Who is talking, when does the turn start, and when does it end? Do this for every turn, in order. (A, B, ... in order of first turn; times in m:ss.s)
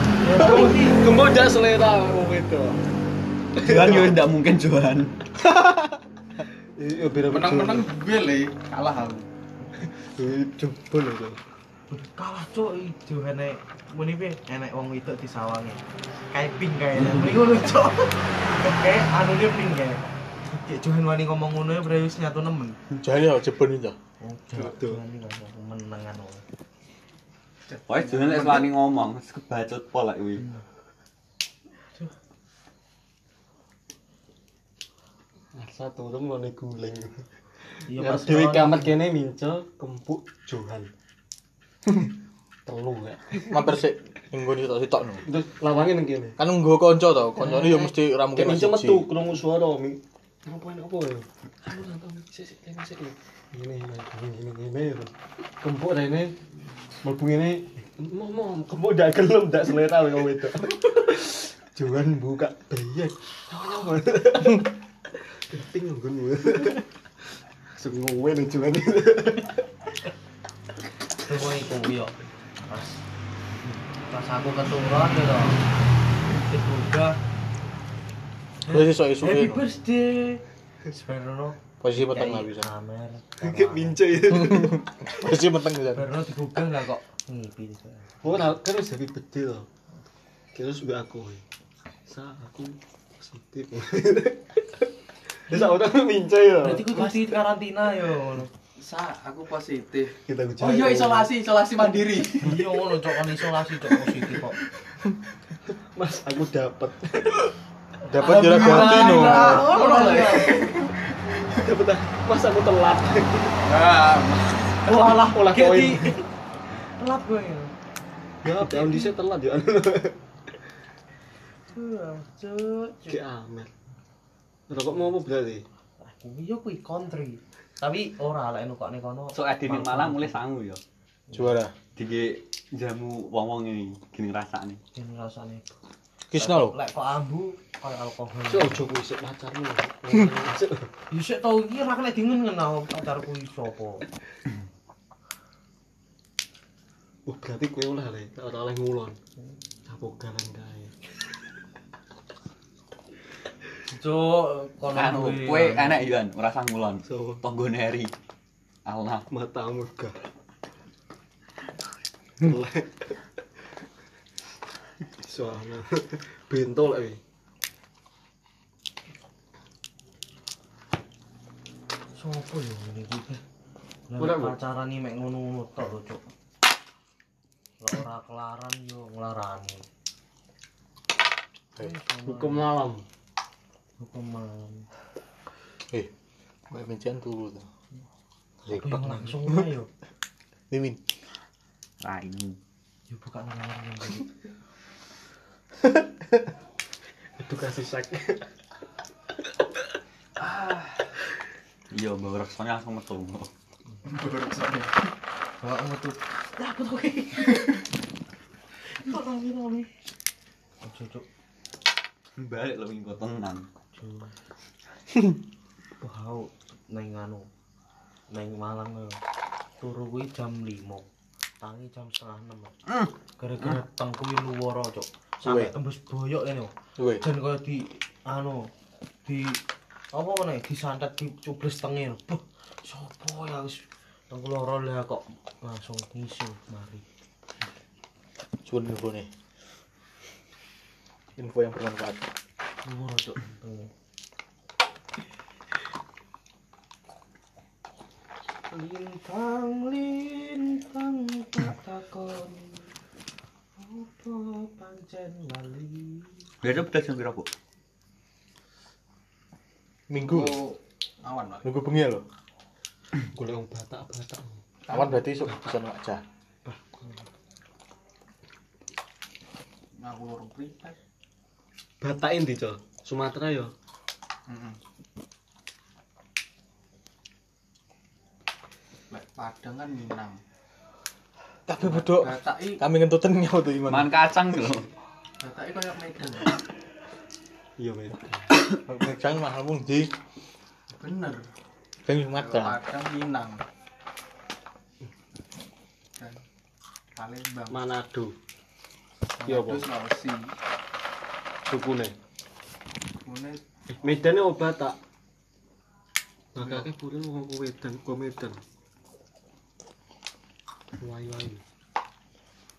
0:00.2-0:01.1 A
0:00.3-0:02.8 B
0:03.6-0:04.2 B
0:03.6-0:05.1 C
0:06.8-0:07.9 B
0:07.3-0:09.3 D
0:09.8-0:11.4 B
0:11.9-0:15.8 A
0:16.3-0:22.8 A
0:23.0-0:24.0 E
0:24.2-0:26.4 A
0:24.6-0:25.0 B
0:27.7-0:28.7 D
0:27.9-0:30.5 C
0:35.5-0:37.2 B
0:37.9-0:38.9 A
0:37.9-0:40.9 B
0:42.6-0:43.8 B
0:43.5-0:45.2 E
0:45.2-0:46.4 B
0:46.4-0:49.1 E
0:47.5-0:56.4 B
0:57.0-1:04.7 B
1:05.4-1:06.9 B
1:07.7-1:09.7 B
1:11.2-1:13.0 A
1:13.6-1:15.6 A
1:16.3-1:17.2 A
1:18.7-1:19.6 E
1:18.7-1:24.2 A
1:21.8-1:22.7 E
1:23.4-1:24.9 B
1:24.3-1:26.1 E
1:25.9-1:28.3 A
1:28.2-1:29.7 B
1:30.5-1:31.4 B
1:32.1-1:34.9 B
1:35.5-1:37.4 B
1:35.5-1:35.8 A
1:36.6-1:38.5 A
1:38.8-1:42.6 D
1:40.3-1:41.3 B
1:42.4-1:44.6 A
1:45.7-1:47.5 B
1:48.1-1:49.6 E
1:48.2-1:50.9 D
1:48.2-1:50.6 A
1:48.4-1:48.9 B
1:51.5-1:53.6 B
1:53.6-1:54.9 D
1:54.8-1:56.3 A
1:55.1-1:56.2 B
1:56.8-1:57.7 A
1:58.4-2:00.2 B
1:58.6-1:59.1 A
2:01.7-2:03.2 A
2:03.1-2:03.7 B
2:04.7-2:05.6 B
2:06.0-2:10.4 A
2:09.3-2:10.8 C
2:11.3-2:11.7 E
2:12.0-2:14.8 C
2:15.0-2:15.8 A
2:16.3-2:16.8 E
2:16.4-2:18.8 A
2:18.5-2:20.9 B
2:21.1-2:24.0 A
2:27.3-2:29.2 B
2:29.9-2:30.9 B
2:33.9-2:36.0 A
2:34.9-2:38.1 C
2:37.0-2:37.4 B
2:38.9-2:39.3 C
2:39.3-2:40.2 B
2:42.4-2:43.2 B
2:45.2-2:47.2 B
2:52.2-2:53.4 A
2:54.1-2:56.2 A
2:54.2-2:54.6 B
2:57.8-2:59.9 A
3:01.8-3:02.7 A
3:02.2-3:03.0 B
3:04.0-3:04.9 A
3:06.7-3:07.7 E
3:08.7-3:09.6 E
3:08.7-3:09.9 A
3:10.7-3:11.0 E
3:12.0-3:12.6 C
3:13.1-3:14.3 A
3:17.4-3:18.5 B
3:20.4-3:21.0 C
3:21.9-3:23.5 C
3:24.0-3:25.0 D
3:25.6-3:27.8 A
3:28.9-3:29.9 A
3:30.8-3:31.2 A
3:32.4-3:33.7 C
3:33.9-3:34.3 A
3:36.0-3:37.5 A
3:38.3-3:39.2 A
3:39.8-3:41.1 A
3:41.6-3:42.8 A
3:43.4-3:48.7 A
3:45.4-3:45.7 E
3:47.0-3:47.2 E
3:49.2-3:49.6 A
3:50.1-3:57.0 A
3:58.6-3:59.3 E
4:01.4-4:02.3 E
4:02.8-4:03.9 A
4:08.7-4:12.9 A
4:13.8-4:16.4 A
4:16.6-4:17.5 C
4:20.1-4:20.6 E
4:20.2-4:21.6 D
4:21.6-4:22.2 E
4:23.3-4:24.6 B
4:24.9-4:26.2 E
4:26.6-4:27.2 A
4:30.0-4:31.0 D
4:32.0-4:33.7 B
4:34.5-4:34.8 D
4:39.1-4:40.4 D
4:41.7-4:44.2 E
4:41.8-4:42.8 D
4:43.9-4:44.9 C
4:45.4-4:46.6 D
4:47.8-4:48.5 B
4:48.8-4:50.1 E
4:50.9-4:51.5 D
4:52.1-4:52.8 E
4:52.3-4:53.6 D
4:57.2-4:57.8 D
4:57.7-4:58.3 B
4:59.4-5:00.5 D
4:59.4-4:59.9 B
5:01.6-5:02.2 B
5:03.2-5:03.6 D
5:03.9-5:05.0 B
5:06.6-5:08.6 B
5:06.6-5:06.9 D
5:11.0-5:11.6 B